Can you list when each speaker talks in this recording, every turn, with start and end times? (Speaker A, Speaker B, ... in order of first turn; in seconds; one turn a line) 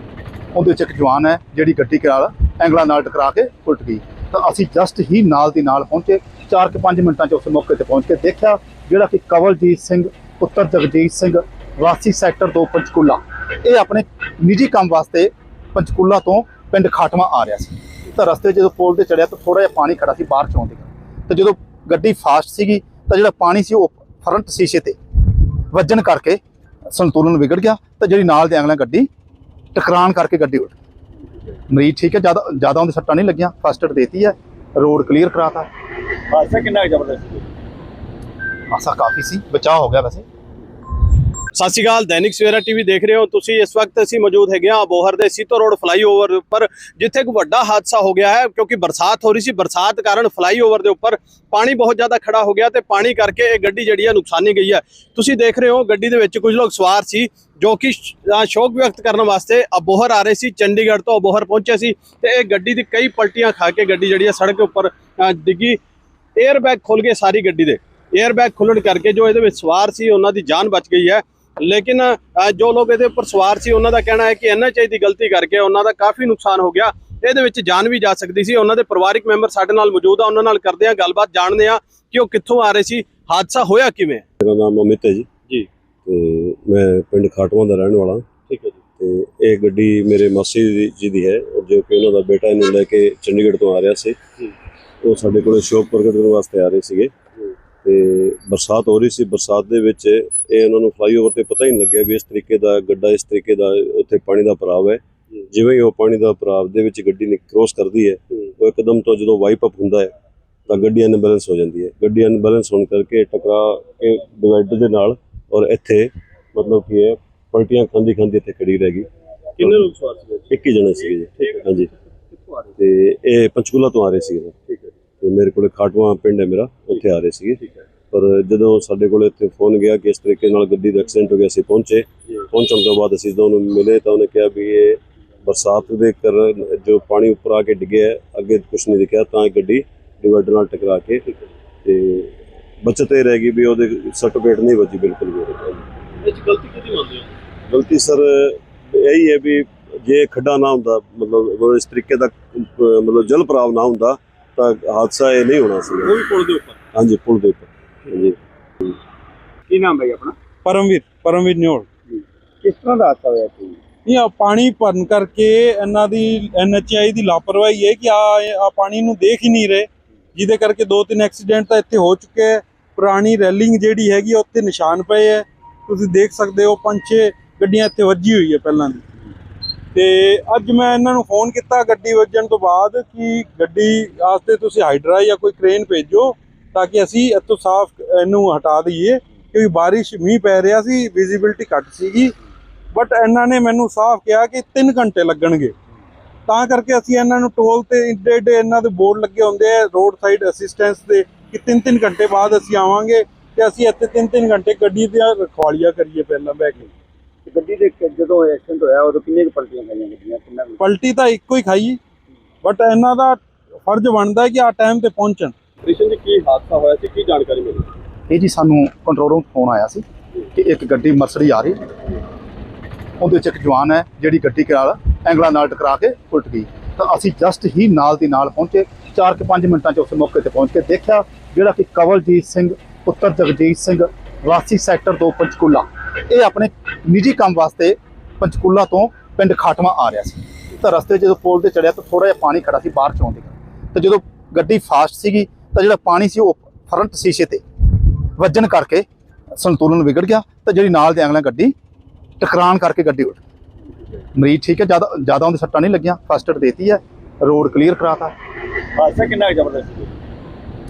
Speaker A: 0.5-26.4
Speaker A: 26.9-29.1
Speaker A: 29.8-30.7
Speaker A: 31.7-35.7
Speaker B: 36.3-37.5
Speaker A: 38.7-40.2
Speaker C: 41.5-65.8
Speaker C: 66.4-84.2
Speaker D: 84.4-85.3
Speaker D: 86.0-88.3
Speaker C: 88.5-88.8
Speaker D: 89.0-94.2
Speaker D: 95.0-97.1
Speaker D: 97.8-110.1
Speaker D: 110.7-119.1
Speaker C: 119.6-120.5
Speaker D: 120.5-121.9
Speaker C: 121.4-122.6
Speaker D: 122.8-124.6
Speaker D: 125.2-127.6
Speaker D: 128.1-141.3
Speaker D: 141.8-145.8
Speaker C: 146.2-147.3
Speaker D: 147.7-156.1
Speaker C: 156.1-156.8
Speaker D: 156.9-158.4
Speaker B: 159.7-160.3
Speaker E: 160.7-161.9
Speaker B: 162.1-163.8
Speaker E: 164.1-179.0
Speaker E: 179.9-192.3
Speaker E: 192.9-195.7
Speaker E: 196.5-206.9
Speaker B: 207.5-210.8
Speaker E: 210.8-212.0
Speaker E: 212.6-215.5
Speaker C: 215.8-217.9
Speaker A: 218.3-221.8
Speaker A: 223.2-249.1
Speaker A: 249.6-251.7
Speaker A: 252.4-253.4
Speaker A: 254.4-258.3
Speaker B: 259.0-259.9